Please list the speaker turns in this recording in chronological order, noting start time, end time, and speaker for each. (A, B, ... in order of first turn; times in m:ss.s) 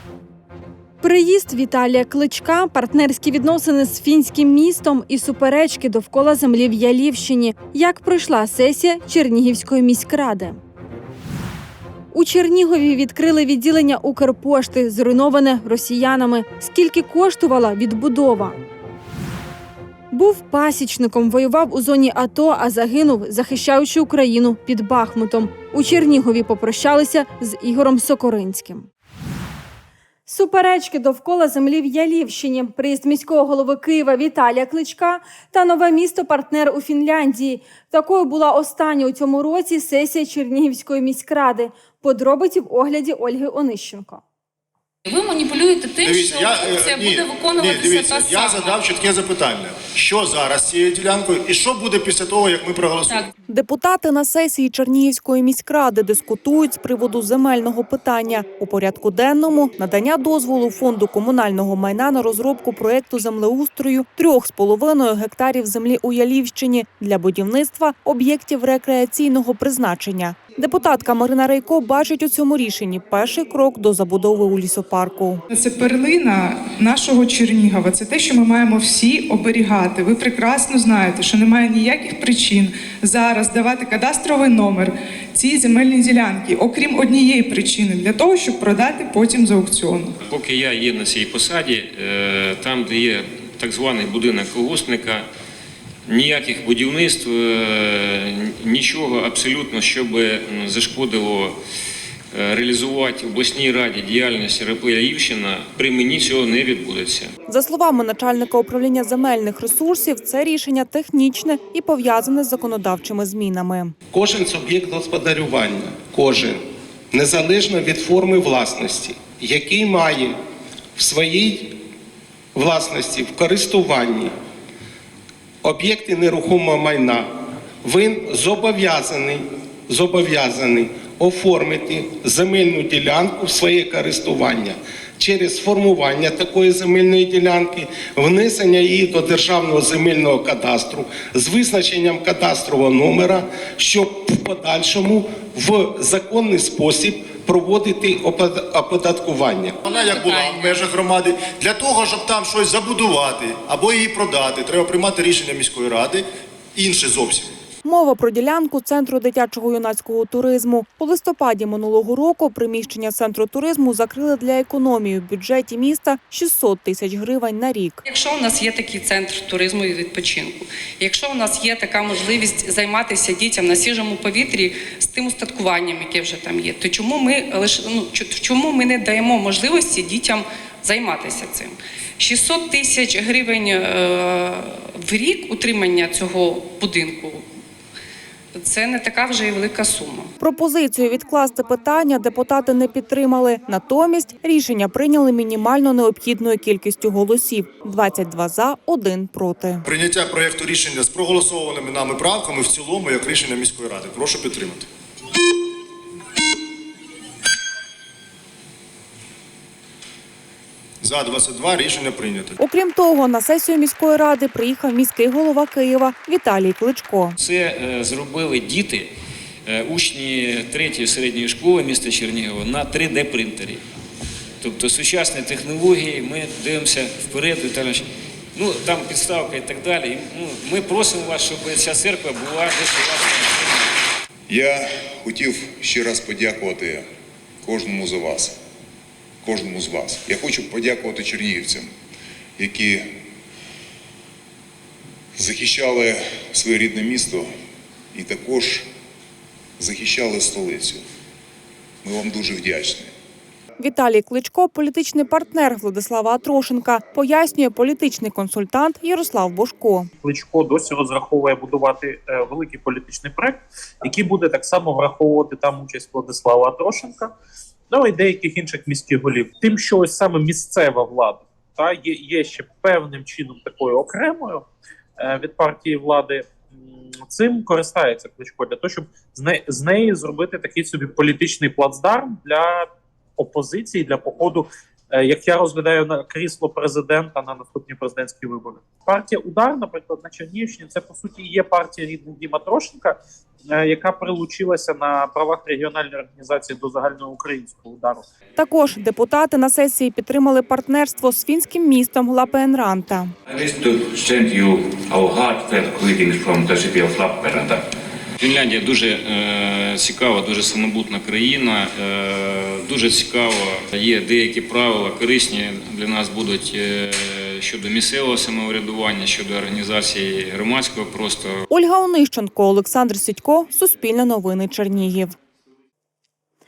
0:01.0-0:10.6 A
0:12.1-0:18.6 A
0:20.1-0:28.9 A
0:30.2-0:44.2 A
0:45.1-0:46.0 B
0:46.0-0:53.3 C
0:47.7-0:48.3 B
0:53.5-1:15.4 D
1:15.5-1:30.2 E
1:30.2-1:35.2 F
1:36.1-1:41.5 F
1:42.3-1:47.3 F
1:47.5-1:53.9 D
1:54.1-2:00.3 G
2:01.0-2:01.7 G
2:02.5-2:04.3 G
2:05.6-2:07.2 G
2:07.8-2:29.8 G
2:29.8-2:37.5 C
2:37.8-2:48.0 D
2:48.0-3:07.4 B
3:08.5-3:10.3 B
3:10.4-3:19.8 D
3:19.8-3:24.9 C
3:31.0-3:32.5 C
3:32.6-3:37.3 D
3:37.4-3:39.1 F
3:39.7-3:43.8 F
3:44.6-3:48.0 F
3:48.6-3:53.7 F
3:54.5-3:57.0 H
3:57.6-3:58.5 H
3:59.4-4:01.9 H
4:02.6-4:03.1 H
4:05.4-4:07.5 H
4:08.1-4:08.9 H
4:09.8-4:11.0 H
4:12.0-4:13.1 H
4:13.8-4:20.1 D
4:20.2-4:27.3 I
4:27.9-4:34.7 I
4:35.2-4:36.5 I
4:37.2-4:53.2 I
4:53.7-4:58.2 I
4:58.6-5:03.3 D
5:03.5-5:07.8 J
5:08.4-5:21.6 F
5:21.7-5:25.3 D